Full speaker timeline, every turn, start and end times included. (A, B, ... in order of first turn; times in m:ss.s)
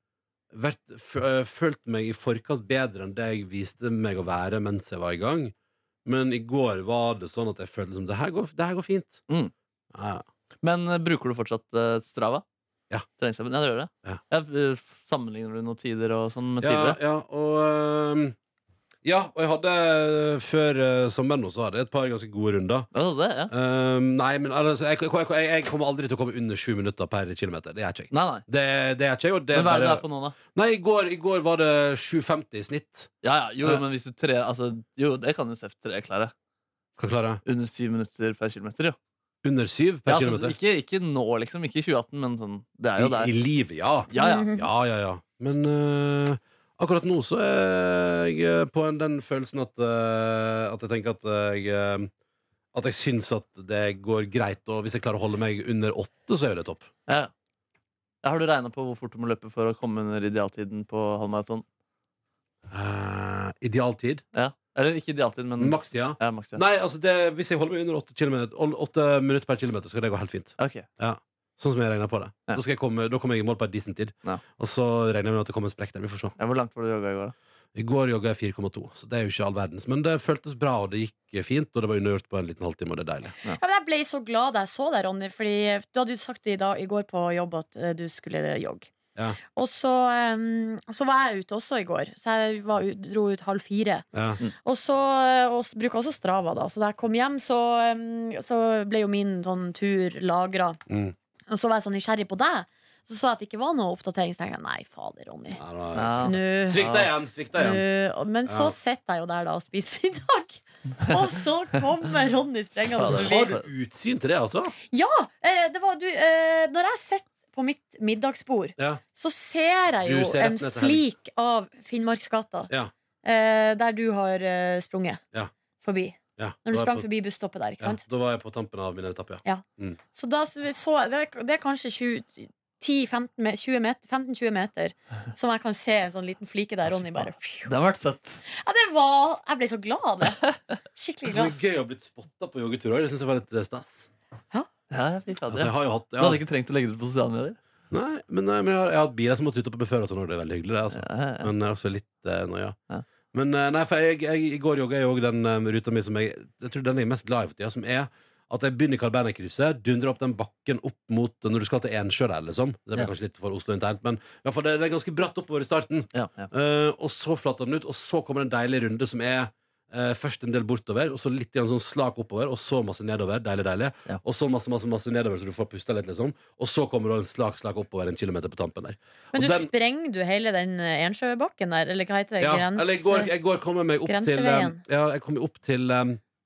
0:00.5-0:05.5 A
0:06.0-0:09.2 A
0:09.9-0:10.3 A
0:10.6-0:12.4 B
0:13.2-0:17.0 B
0:16.6-0:18.4 A
0:19.0-0:22.9 A
0:22.9-0:23.5 B
0:23.5-0:33.1 A
0:28.1-0:28.4 B
0:29.5-0:30.4 B
0:33.2-0:36.3 B
0:37.0-0:37.4 A
0:37.4-0:39.0 B
0:39.4-0:40.6 A
0:40.1-0:43.3 B
0:43.0-0:52.1 A
0:44.1-0:44.5 B
0:44.2-0:44.7 C
0:52.7-0:56.9 A
0:58.2-1:01.6 B
1:02.7-1:04.2 A
1:04.4-1:06.6 B
1:05.6-1:16.4 A
1:10.6-1:10.9 B
1:16.4-1:17.3 B
1:17.8-1:23.4 A
1:23.5-1:28.9 C
1:29.5-1:34.0 C
1:34.1-1:34.4 A
1:34.6-1:40.8 C
1:40.9-1:41.2 A
1:41.5-1:45.6 C
1:45.6-1:47.8 A
1:46.0-1:47.1 B
1:46.2-1:46.9 C
1:47.6-1:53.6 C
1:48.5-1:48.8 A
1:53.0-1:53.6 B
1:53.1-1:54.7 A
1:54.9-2:02.7 C
2:00.0-2:01.0 A
2:03.2-2:05.2 C
2:05.8-2:08.0 C
2:06.4-2:07.1 A
2:07.8-2:10.0 A
2:09.4-2:17.7 C
2:17.6-2:18.4 B
2:18.5-2:20.4 C
2:21.0-2:21.6 C
2:21.3-2:24.1 A
2:24.9-2:27.6 B
2:25.5-2:26.4 A
2:27.9-2:32.8 A
2:30.9-2:31.5 B
2:33.3-2:59.7 A
2:46.2-2:46.5 B
2:59.3-3:03.3 C
3:02.4-3:06.2 A
3:04.1-3:04.8 C